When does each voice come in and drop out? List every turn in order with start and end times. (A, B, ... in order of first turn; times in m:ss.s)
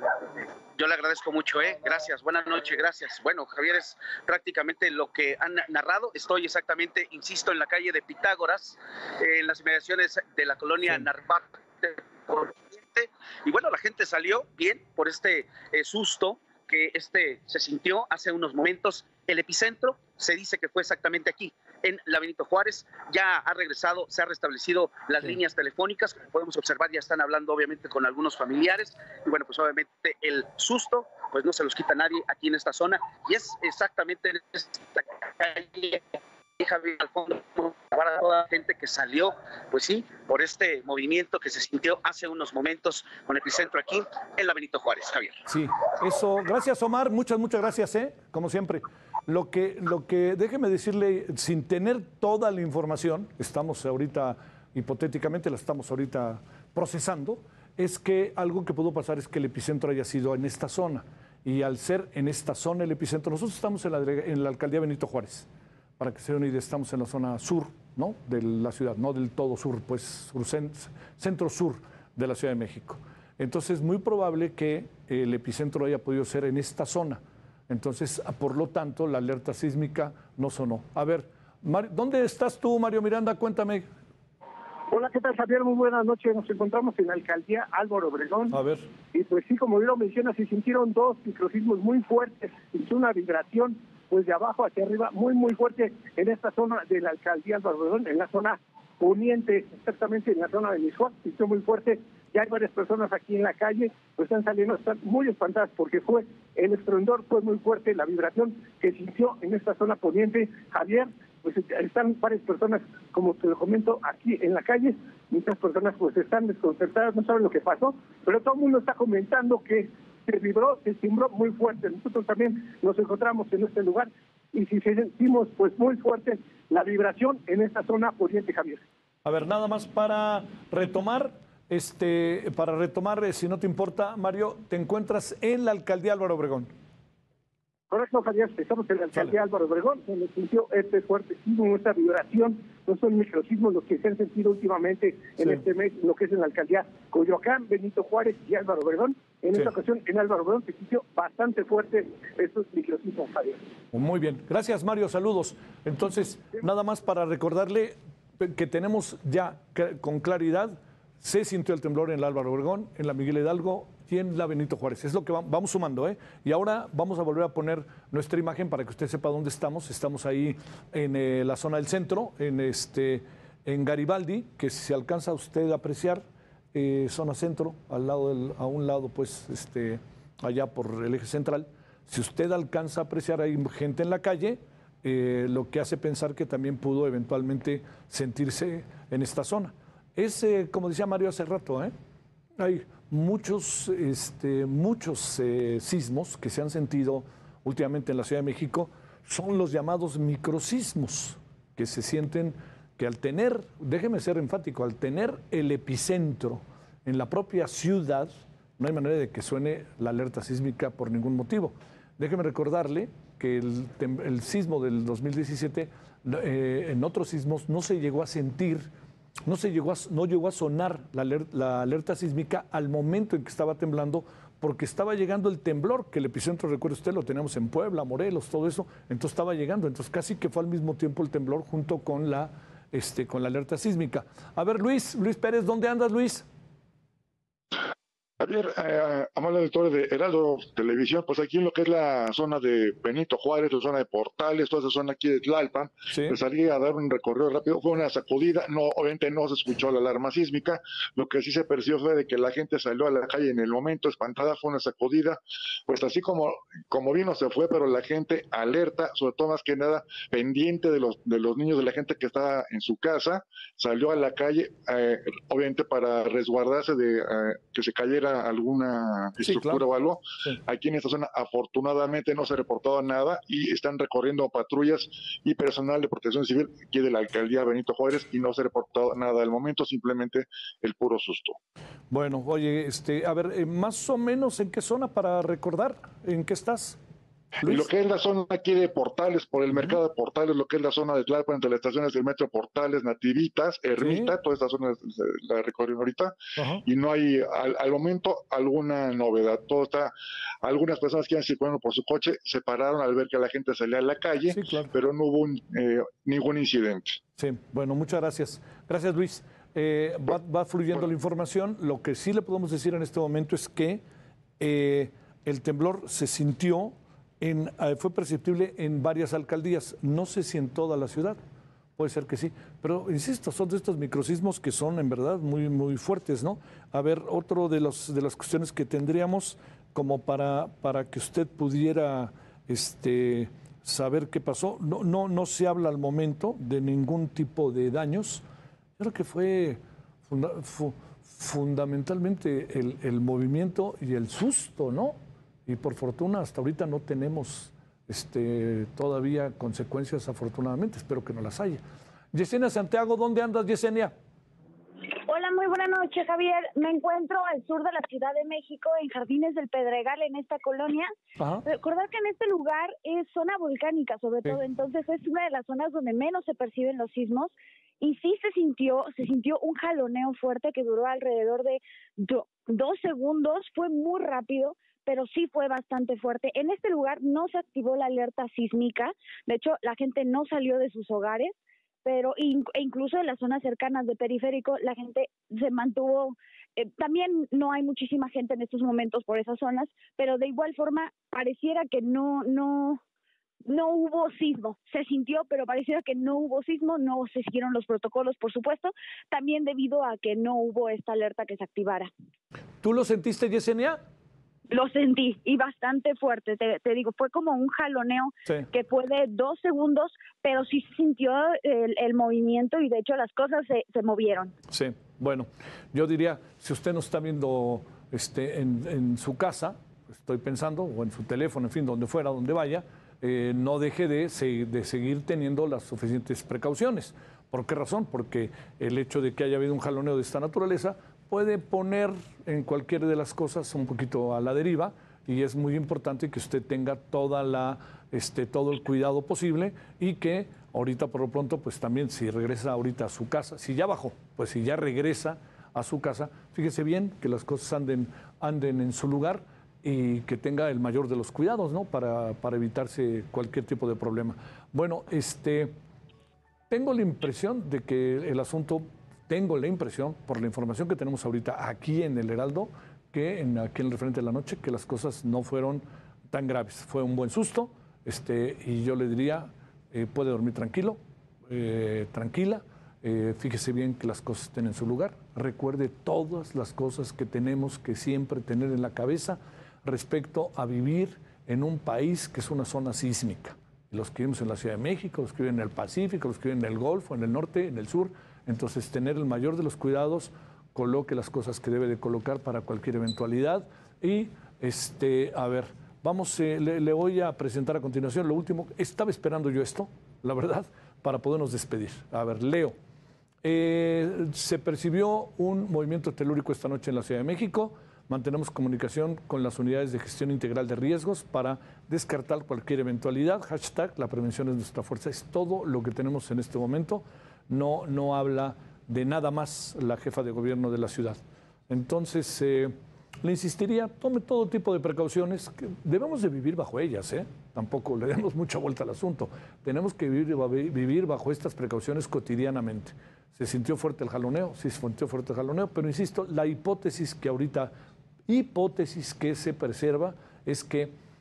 0:00.8-0:45.4 A
0:45.4-1:05.5 B
1:06.0-1:23.9 B
1:24.9-1:28.6 C
1:28.5-1:28.9 B
1:29.1-2:08.8 C
2:09.2-2:16.7 B
2:17.9-2:33.6 C
2:33.9-2:56.2 B
2:56.7-3:11.9 B
3:12.6-3:38.9 B
3:39.4-3:56.4 B
3:58.4-4:41.6 D
4:06.1-4:06.3 B
4:29.4-4:29.8 B
4:42.1-4:47.0 B
4:47.6-4:47.9 B
4:47.6-5:00.1 D
4:54.0-4:54.3 B
4:56.6-4:56.8 B
5:00.6-5:07.2 D
5:04.5-5:04.9 B
5:07.4-5:14.0 B
5:14.6-5:21.4 B
5:22.0-5:38.4 B
5:39.0-5:45.1 B
5:45.6-5:51.8 B
5:52.3-5:54.1 B
5:55.3-6:01.1 E
6:01.4-6:01.6 B
6:01.6-6:33.0 E
6:33.6-6:42.1 E
6:42.8-6:44.0 B
6:44.7-6:54.5 E
6:54.7-7:35.7 B
7:36.7-8:22.7 B
8:23.4-8:57.7 B
8:58.3-9:00.9 B